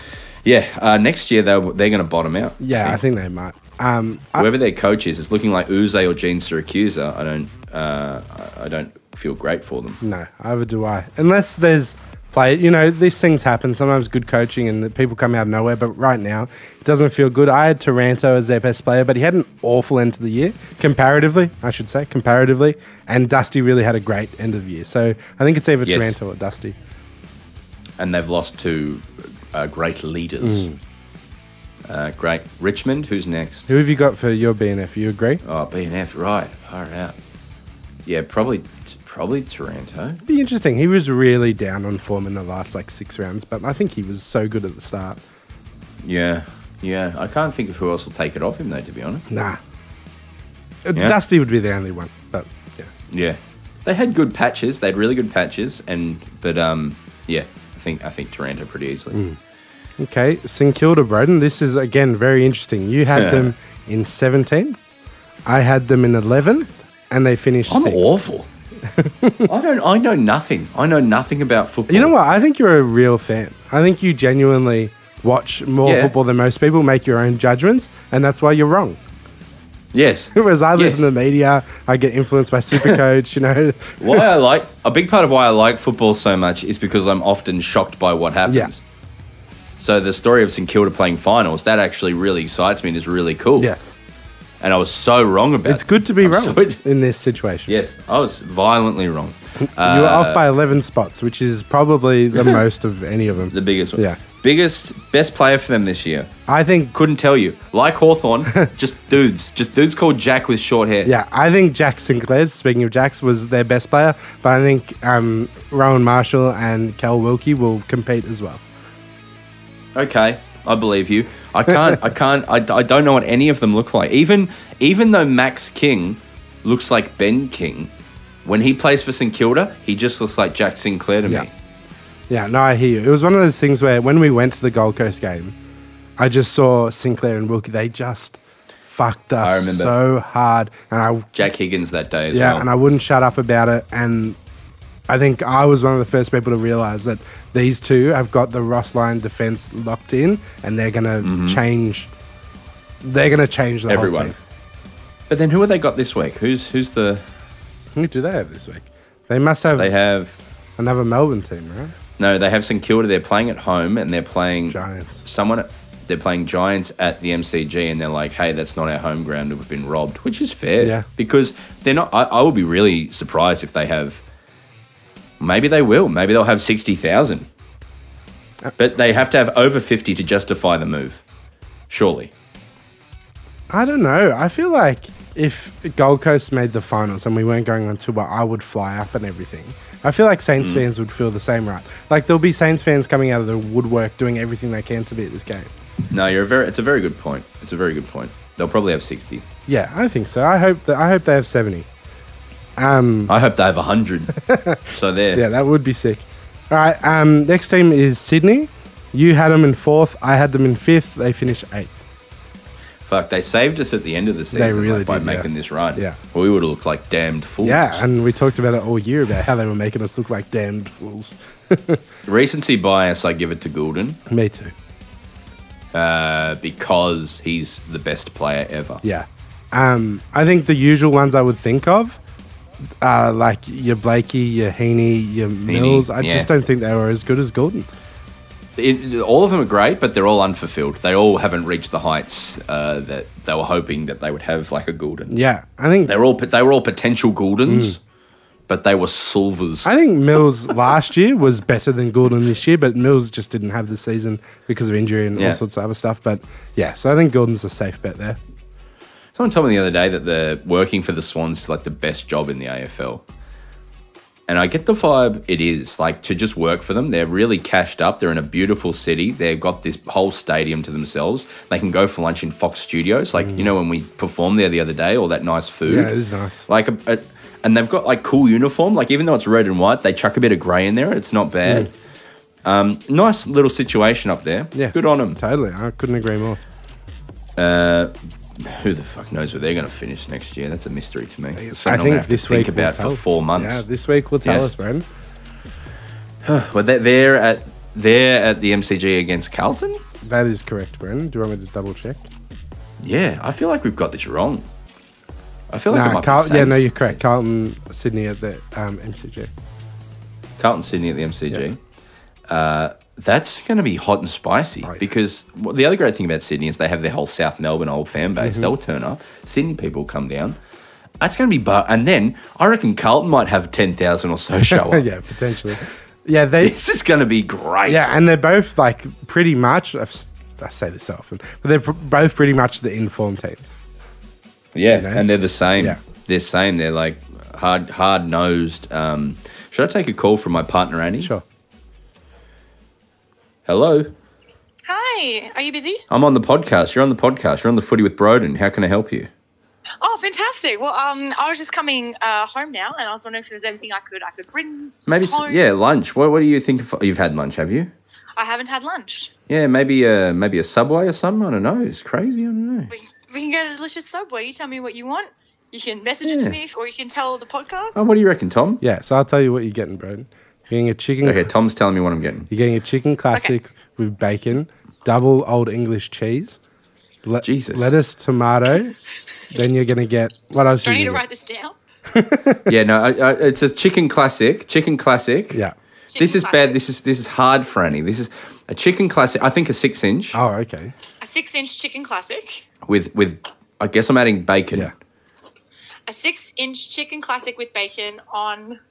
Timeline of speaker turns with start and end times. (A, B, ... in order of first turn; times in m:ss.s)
0:00.4-0:03.0 A
0:02.6-0:04.5 B
0:04.4-0:10.0 A
0:10.0-0:26.8 B
0:25.8-0:26.1 A
0:28.0-0:30.7 A
0:30.4-0:30.8 B
0:31.9-0:33.7 A
0:33.7-0:35.4 B
0:35.4-0:37.1 A
0:38.0-0:40.2 A
0:40.2-0:45.2 B
0:46.0-0:49.2 A
0:49.3-0:49.6 B
0:50.8-0:52.9 B
0:53.1-0:59.2 A
1:00.0-1:04.8 B
1:03.1-1:03.5 A
1:05.4-1:08.1 B
1:07.7-1:08.5 A
1:08.9-1:09.5 B
1:09.4-1:12.1 A
1:11.9-1:19.0 B
1:15.8-1:16.1 A
1:19.9-1:21.1 A
1:20.3-1:24.2 B
1:24.0-1:28.8 A
1:28.5-1:28.7 B
1:29.8-1:33.7 A
1:33.6-1:33.9 B
1:34.6-1:36.8 A
1:35.6-1:37.7 B
1:37.7-1:40.4 A
1:39.8-1:44.2 B
1:43.5-1:46.3 A
1:46.5-1:46.9 B
1:46.9-1:51.1 A
1:51.0-1:58.6 B
1:59.9-2:07.9 A
2:08.4-2:11.5 A
2:12.3-2:15.6 B
2:16.2-2:21.3 B
2:19.4-2:19.9 A
2:21.3-2:22.6 A
2:22.3-2:24.4 B
2:25.1-2:32.1 B
2:31.2-2:31.6 A
2:33.0-2:34.4 B
2:33.9-2:34.3 A
2:35.3-2:37.2 A
2:38.0-2:39.9 B
2:39.8-2:40.4 A
2:40.8-2:41.9 B
2:42.2-2:54.2 A
2:44.7-2:45.2 B
2:50.8-2:51.0 B
2:55.4-2:57.5 A
2:58.8-3:01.2 A
3:01.9-3:02.3 A
3:03.7-3:15.7 B
3:10.6-3:10.8 A
3:16.1-3:19.4 A
3:19.7-3:21.9 B
3:22.8-3:23.3 B
3:23.3-3:25.4 A
3:24.4-3:24.8 B
3:25.3-3:32.0 B
3:33.0-3:38.0 A
3:34.5-3:36.2 B
3:37.6-3:42.0 B
3:42.2-3:44.2 A
3:44.3-3:44.7 B
3:45.9-3:49.0 A
3:49.0-3:52.2 B
3:53.0-3:57.9 B
3:55.7-3:56.5 A
3:58.8-4:05.4 A
4:05.3-4:06.2 B
4:06.0-4:08.0 A
4:07.7-4:08.0 B
4:08.7-4:09.9 A
4:09.8-4:18.4 B
4:19.3-4:23.2 A
4:24.5-4:36.1 A
4:35.8-4:36.6 B
4:36.7-4:41.9 A
4:42.6-4:45.4 A
4:44.7-4:46.6 B
4:47.6-4:53.8 A
4:51.6-4:55.0 B
4:56.4-5:00.0 A
5:00.2-5:02.2 B
5:03.0-5:04.7 A
5:05.7-5:07.2 A
5:05.9-5:09.5 B
5:10.6-5:11.8 A
5:12.5-5:20.6 A
5:18.4-5:18.7 B
5:21.2-5:25.0 A
5:24.7-5:26.7 B
5:26.6-5:28.1 A
5:27.9-5:33.7 B
5:34.7-5:41.3 A
5:34.9-5:35.2 B
5:43.6-5:44.1 A
5:44.8-5:46.0 C
5:46.1-5:49.3 A
5:50.0-5:55.6 C
5:55.1-5:57.9 A
5:58.4-5:59.3 C
5:59.5-6:02.9 A
6:02.9-6:08.0 C
6:06.2-6:06.6 A
6:07.9-6:08.8 A
6:08.8-6:11.5 B
6:11.2-6:12.5 A
6:12.5-6:16.6 B
6:17.2-6:18.9 B
6:17.4-6:17.9 A
6:19.5-6:21.2 B
6:20.8-6:21.7 C
6:22.1-6:22.7 B
6:22.7-6:25.6 A
6:26.1-6:26.8 C
6:26.2-6:30.4 A
6:30.3-6:30.9 B
6:31.2-6:32.6 C
6:32.8-6:34.9 A
6:36.1-6:38.8 C